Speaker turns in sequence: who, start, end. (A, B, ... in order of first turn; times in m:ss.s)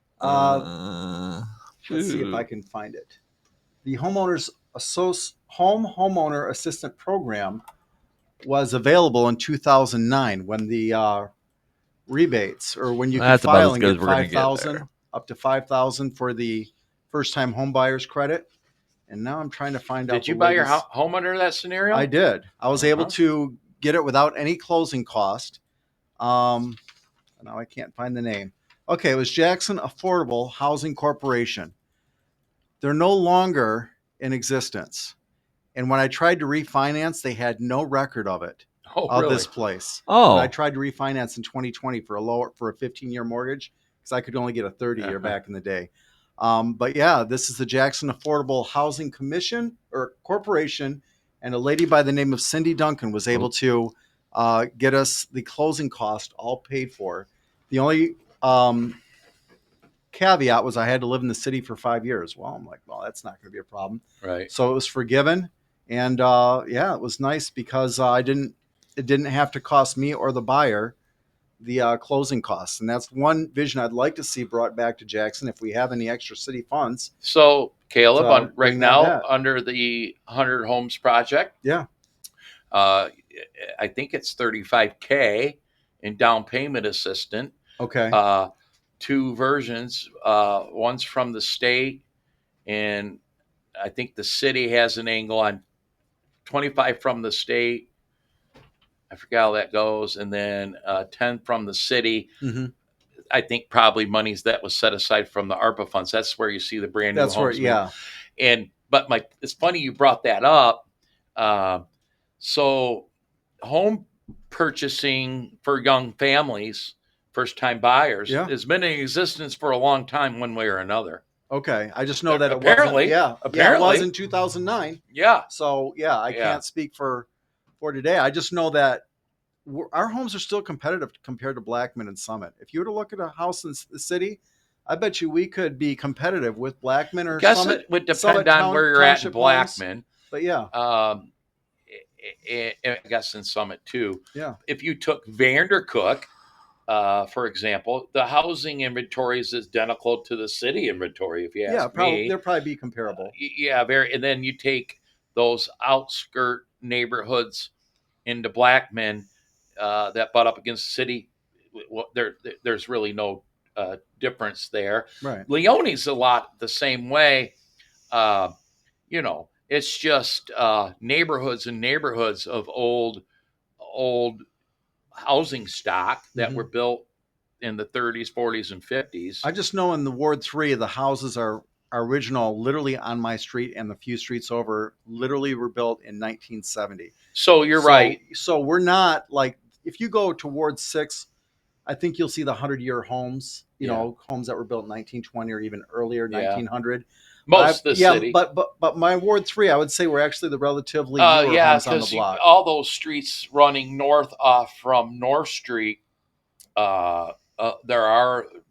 0:00.2-0:02.4 A
0:00.2-0:00.7 B
0:01.9-0:03.2 B
0:03.8-0:07.6 B
0:08.4-0:11.3 B
0:12.1-0:18.5 B
0:13.1-0:14.9 A
0:19.1-0:20.8 B
0:20.1-0:22.1 C
0:21.9-0:25.6 B
0:22.8-0:23.1 C
0:26.2-0:26.8 B
0:27.4-0:31.7 B
0:32.8-0:35.1 B
0:35.8-0:59.0 B
0:38.9-0:39.5 C
0:40.1-0:40.5 A
0:45.0-0:45.4 C
1:00.1-1:11.0 B
1:04.2-1:04.5 C
1:11.6-1:17.1 B
1:17.2-1:21.5 C
1:18.2-1:19.2 B
1:22.7-1:27.6 C
1:27.8-1:28.2 B
1:28.1-1:32.0 C
1:32.7-1:33.2 C
1:33.8-1:35.6 C
1:36.4-1:37.9 C
1:39.1-1:42.3 C
1:42.4-1:42.7 B
1:43.3-1:51.8 C
1:47.1-1:47.9 B
1:52.4-1:53.1 C
1:53.6-2:01.2 C
2:01.5-2:07.3 B
2:02.3-2:04.1 C
2:05.1-2:05.5 C
2:06.3-2:06.6 C
2:07.8-2:09.0 B
2:09.6-2:20.7 B
2:17.3-2:20.0 C
2:20.7-2:21.3 C
2:21.9-2:26.3 C
2:26.9-2:32.4 C
2:31.7-2:33.3 B
2:33.2-2:37.7 C
2:38.2-2:47.6 C
2:45.2-2:45.5 B
2:48.1-2:48.5 C
2:49.1-2:53.2 C
2:53.8-2:54.4 C
2:55.2-2:57.1 C
2:56.4-2:56.7 B
2:57.6-2:59.5 C
2:59.4-3:07.2 B
3:07.3-3:08.2 C
3:07.8-3:11.3 B
3:11.8-3:22.4 B
3:13.8-3:14.1 C
3:16.3-3:16.6 C
3:17.5-3:18.4 C
3:21.2-3:26.0 C
3:26.8-3:28.5 C